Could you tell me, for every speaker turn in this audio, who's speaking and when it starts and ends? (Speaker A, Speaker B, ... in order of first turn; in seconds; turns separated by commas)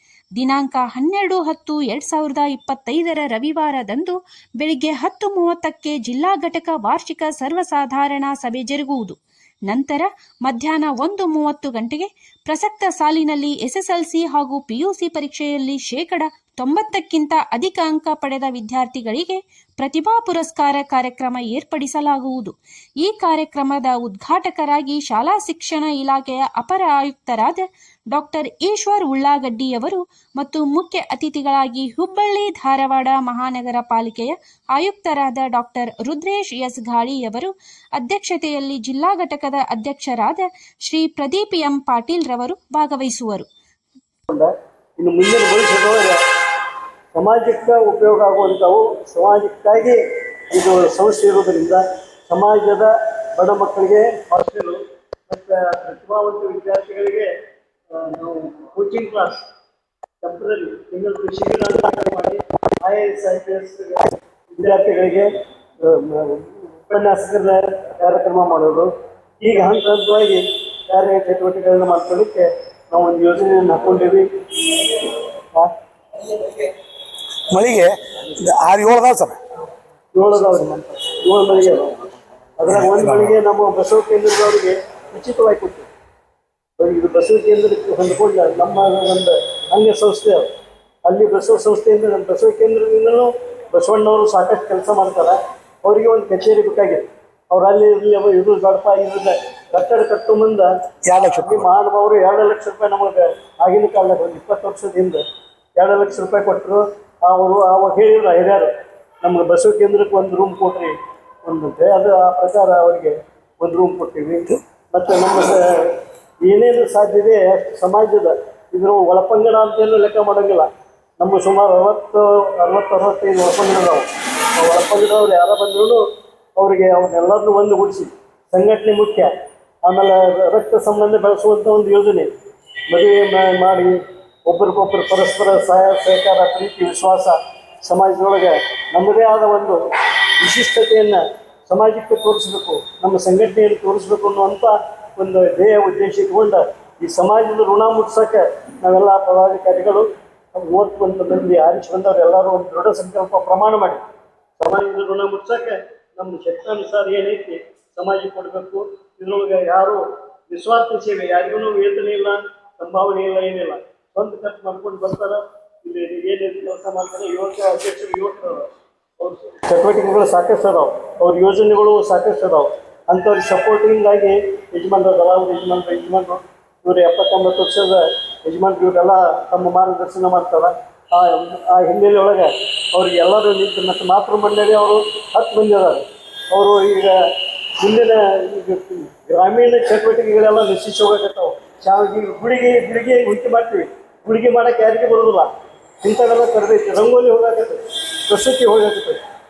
Speaker A: 0.3-43.5, Speaker B: 44.3-46.2, Speaker B: 47.1-57.3, Speaker B: 57.9-59.4, Speaker B: 60.2-75.7, Speaker C: 77.5-79.4, Speaker B: 80.1-85.9, Speaker C: 82.7-83.3, Speaker B: 86.8-90.5, Speaker B: 91.0-105.2, Speaker C: 101.0-101.7, Speaker B: 105.8-108.7, Speaker B: 109.2-126.0, Speaker B: 126.6-129.3, Speaker B: 129.8-132.3, Speaker B: 132.9-139.8, Speaker B: 140.4-154.0, Speaker B: 154.6-199.2